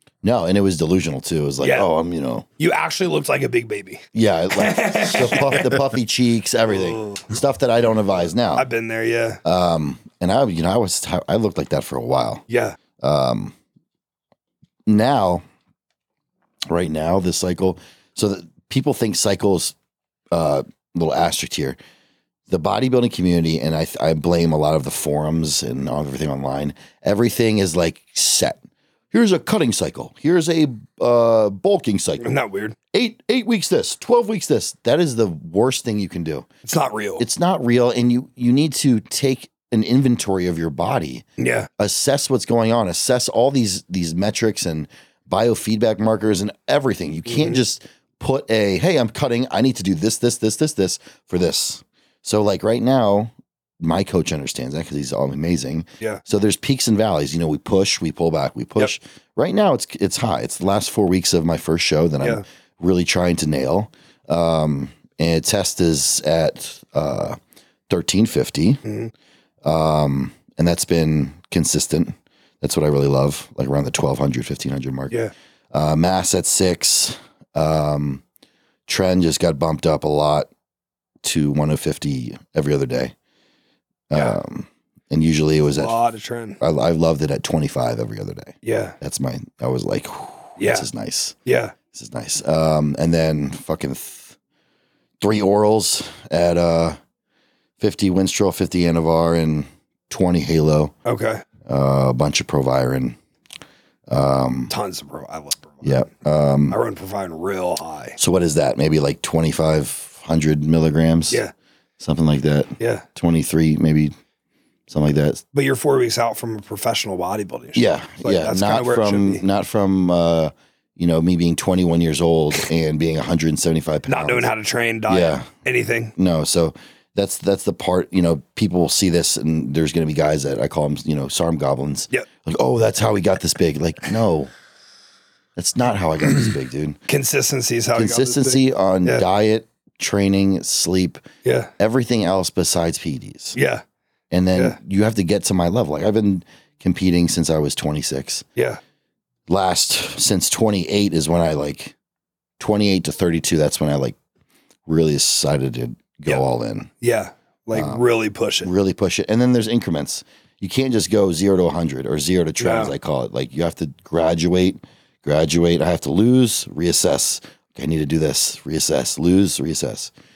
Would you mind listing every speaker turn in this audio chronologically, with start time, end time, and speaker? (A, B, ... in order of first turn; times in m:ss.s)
0:00.2-0:02.5 A
0:01.6-0:01.9 B
0:02.6-0:05.8 B
0:04.1-0:08.7 A
0:06.7-0:07.2 B
0:08.6-0:09.4 B
0:09.4-0:12.4 A
0:12.5-0:12.8 B
0:13.0-0:13.6 A
0:14.9-0:15.4 A
0:16.7-0:19.8 A
0:20.3-0:21.8 A
0:22.5-0:28.6 A
0:29.1-0:32.3 A
0:32.2-0:32.8 B
0:32.9-0:36.5 A
0:36.6-0:37.2 B
0:37.2-0:41.2 A
0:41.4-0:41.7 B
0:41.8-1:07.4 A
0:47.3-0:47.6 B
1:07.9-1:08.8 A
1:08.8-1:09.1 B
1:09.6-1:15.2 A
1:15.7-1:18.2 A
1:18.9-1:20.5 A
1:21.2-1:23.1 A
1:24.1-1:26.0 A
1:25.7-1:26.6 B
1:26.6-1:31.4 A
1:28.6-1:29.0 B
1:30.6-1:30.9 B
1:31.4-1:31.8 B
1:31.9-1:34.4 A
1:35.2-1:37.0 A
1:37.8-1:40.9 A
1:41.0-1:41.4 B
1:41.6-1:43.2 A
1:44.1-1:44.7 A
1:44.7-1:46.1 B
1:45.8-1:46.8 A
1:46.7-1:48.2 B
1:48.2-1:51.4 A
1:52.0-1:54.1 A
1:52.8-1:53.0 B
1:54.9-1:55.4 A
1:55.5-1:59.4 B
1:57.8-2:04.5 A
2:04.1-2:06.1 B
2:05.1-2:05.5 A
2:06.2-2:14.5 A
2:15.6-2:17.0 A
2:17.1-2:19.2 B
2:18.0-2:21.2 A
2:21.4-2:21.7 B
2:21.8-2:23.6 A
2:23.6-2:23.8 B
2:24.3-2:28.4 A
2:28.6-2:28.8 B
2:29.5-2:32.0 A
2:32.6-2:34.2 A
2:34.9-2:36.9 A
2:37.0-2:38.7 B
2:37.7-2:38.0 A
2:38.6-2:50.1 A
2:42.6-2:42.9 B